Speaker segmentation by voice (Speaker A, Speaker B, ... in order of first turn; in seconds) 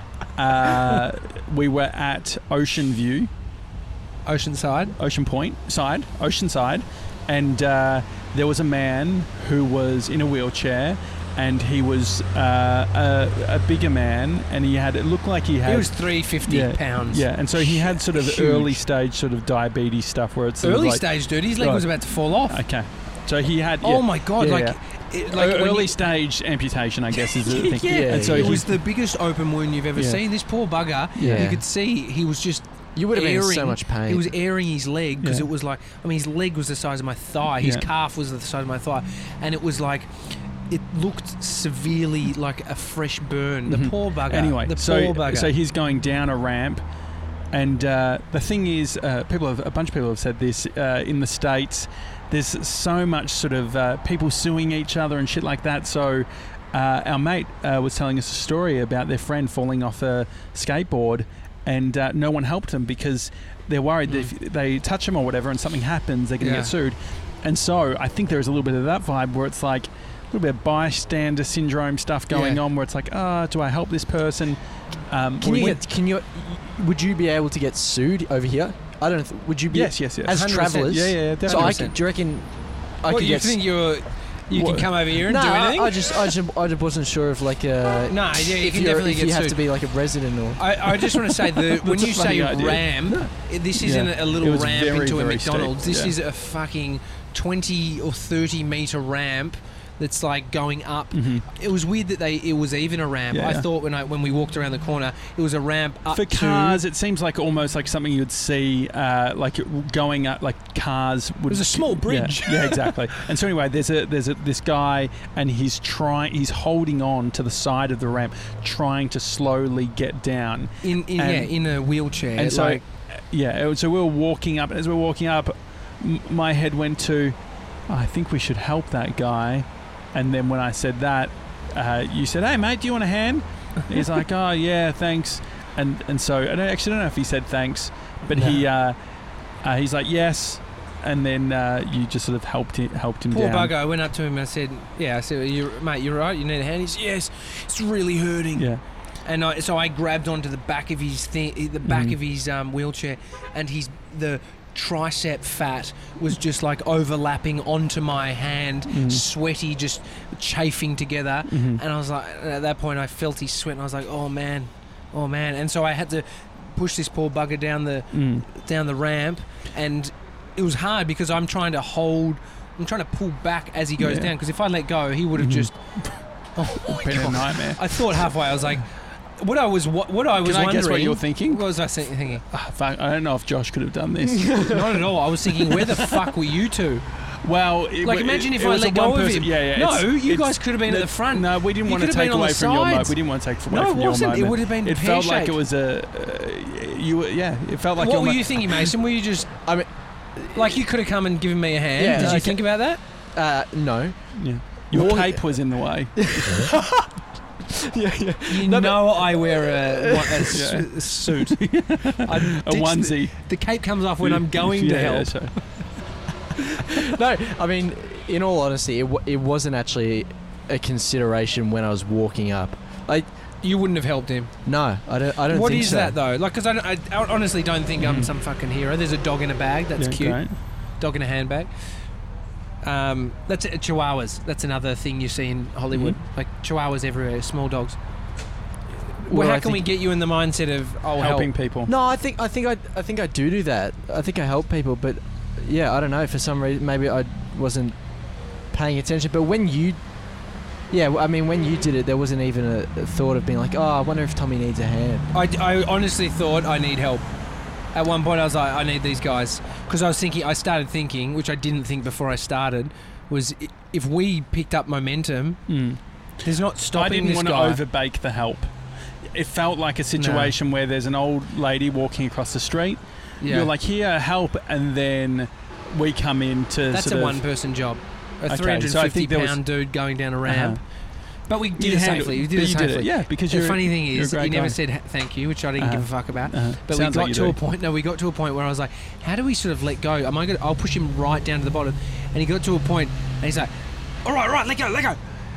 Speaker A: 0.4-3.3, 5.0-24.8, 25.3-28.8, 29.9-30.2, 31.1-31.6, 37.6-37.9, 43.7-46.8, 47.5-74.6, 75.1-75.8, 79.7-81.9, 84.5-85.0, 91.7-96.1, 101.1-101.4, 103.3-103.7, 106.1-121.5, 122.3-127.3, 127.9-138.9, 139.6-143.7, 148.6-148.8, 151.8-152.1, 158.9-159.2, 161.5-161.8, 168.1-168.4, 174.0-174.3, 175.3-176.2, 176.7-178.2, 180.4-181.7, 182.5-185.1, 185.7-186.3, 187.4-198.9, 202.2-202.4, 204.3-206.6, 210.5-213.3, 214.2-215.6, 228.0-228.3, 230.0-230.5, 241.2-241.9, 265.7-266.0, 266.9-268.7, 269.3-277.4, 278.5-279.6, 280.4-280.8, 281.8-284.8, 285.8-287.6
Speaker B: 4.2-4.9, 15.6-18.8, 20.6-22.6, 23.8-26.0, 27.1-45.5, 66.4-66.7, 72.3-72.6, 80.3-81.9, 83.1-86.1, 88.1-89.6, 90.6-106.8, 111.5-113.1, 120.8-122.8, 138.3-138.6, 143.3-148.7, 149.2-175.9, 176.5-178.9, 179.4-182.4, 184.6-187.0, 188.0-193.1, 193.7-195.6, 198.0-199.6, 200.5-203.0, 208.5-215.5, 223.6-224.5, 225.5-230.5, 231.0-231.7, 232.8-238.0, 239.2-241.5, 255.3-257.3, 257.9-265.6, 266.4-267.8, 270.2-270.5, 273.4-273.7, 276.9-280.8, 281.5-293.7, 294.2-295.2
Speaker C: 27.9-28.6, 31.2-31.6, 33.0-34.3, 75.4-82.5, 83.0-83.6, 85.2-90.7, 199.6-200.6, 202.0-204.3, 204.9-205.4, 206.2-207.1, 207.7-210.6, 216.8-223.3, 224.7-226.2, 239.3-239.8, 241.8-247.9, 248.7-250.0, 250.9-255.3